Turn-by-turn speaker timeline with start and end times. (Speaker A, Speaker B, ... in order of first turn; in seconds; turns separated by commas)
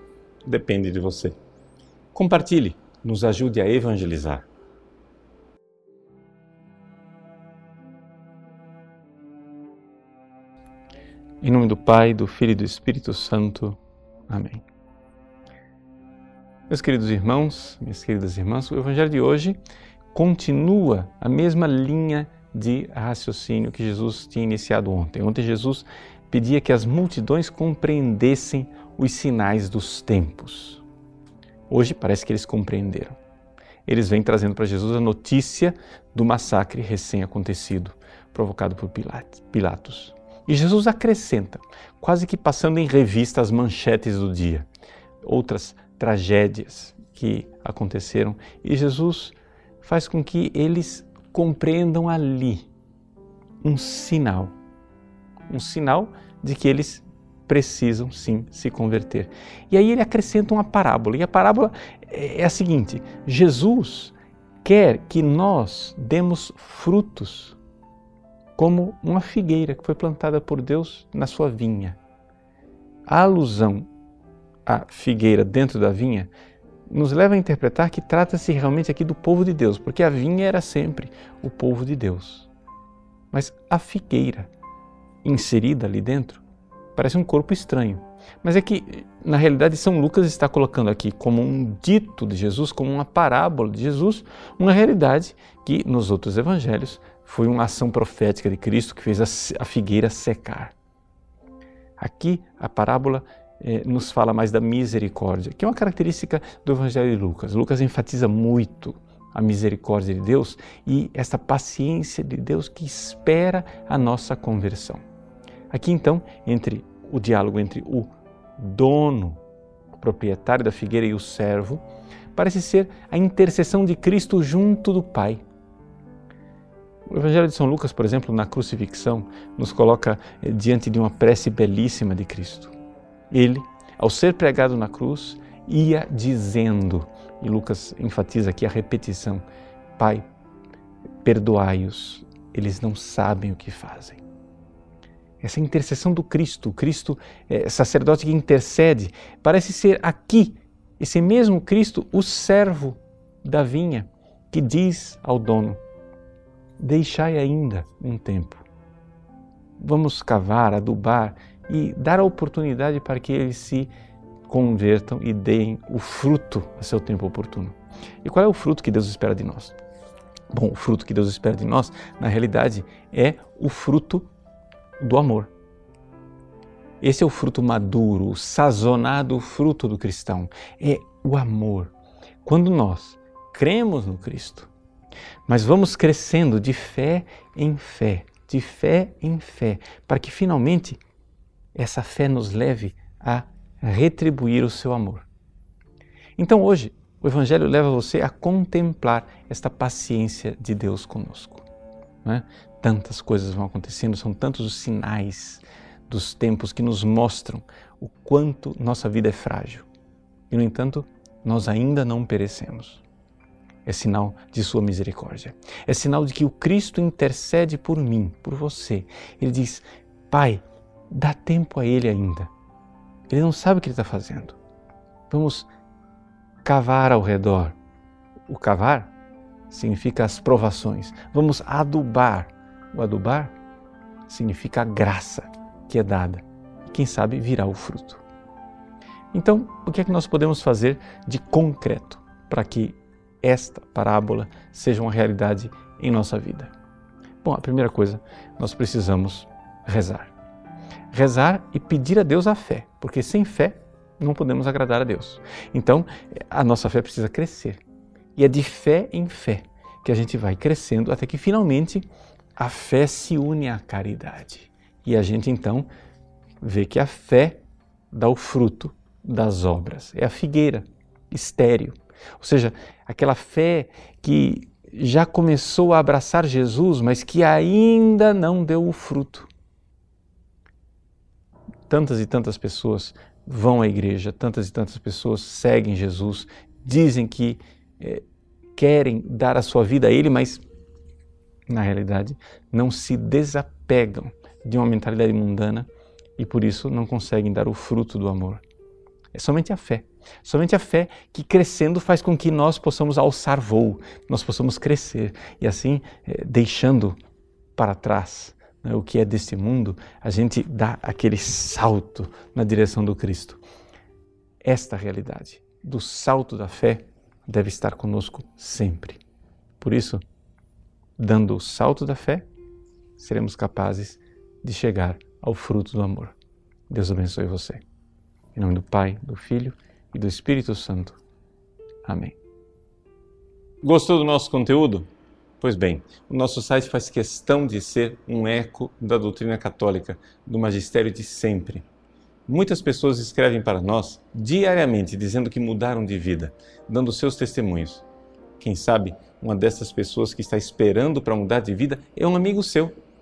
Speaker A: 0.4-1.4, Speaker A: 2.1-4.5, Speaker A: 11.4-14.6, Speaker A: 16.7-19.6, Speaker A: 20.1-30.8, Speaker A: 31.7-33.2, Speaker A: 33.9-44.7, Speaker A: 45.2-52.7, Speaker A: 53.6-54.5, Speaker A: 55.5-67.6, Speaker A: 68.6-72.0, Speaker A: 73.1-73.9, Speaker A: 74.7-76.3, Speaker A: 76.9-82.5, Speaker A: 83.3-84.5, Speaker A: 85.2-86.4, Speaker A: 86.9-100.7, Speaker A: 102.0-115.0, Speaker A: 115.7-119.4, Speaker A: 119.9-125.4, Speaker A: 127.1-132.7, Speaker A: 133.3-139.4, Speaker A: 140.0-140.2, Speaker A: 141.2-144.2, Speaker A: 145.4-155.8, Speaker A: 156.8-158.6, Speaker A: 159.8-163.9, Speaker A: 164.5-169.8, Speaker A: 170.5-174.3, Speaker A: 175.0-175.5, Speaker A: 177.0-184.7, Speaker A: 185.5-191.0, Speaker A: 191.7-195.3, Speaker A: 196.4-201.6, Speaker A: 202.2-209.9, Speaker A: 210.5-213.0, Speaker A: 213.8-222.5, Speaker A: 223.3-224.6, Speaker A: 225.3-225.7, Speaker A: 226.6-227.8, Speaker A: 228.5-229.1, Speaker A: 229.7-233.5, Speaker A: 234.3-238.2, Speaker A: 239.3-246.7, Speaker A: 247.4-250.3, Speaker A: 251.1-257.8, Speaker A: 258.3-265.9, Speaker A: 266.6-279.5, Speaker A: 281.9-288.2, Speaker A: 288.8-290.6, Speaker A: 291.7-295.9, Speaker A: 296.4-298.6, Speaker A: 299.3-307.1, Speaker A: 307.8-313.6, Speaker A: 314.6-319.2, Speaker A: 319.8-320.2, Speaker A: 321.2-322.5, Speaker A: 323.2-326.4, Speaker A: 326.9-327.8, Speaker A: 328.5-331.2, Speaker A: 332.0-332.4, Speaker A: 333.8-335.1, Speaker A: 335.6-341.9, Speaker A: 342.5-348.0, Speaker A: 348.6-352.9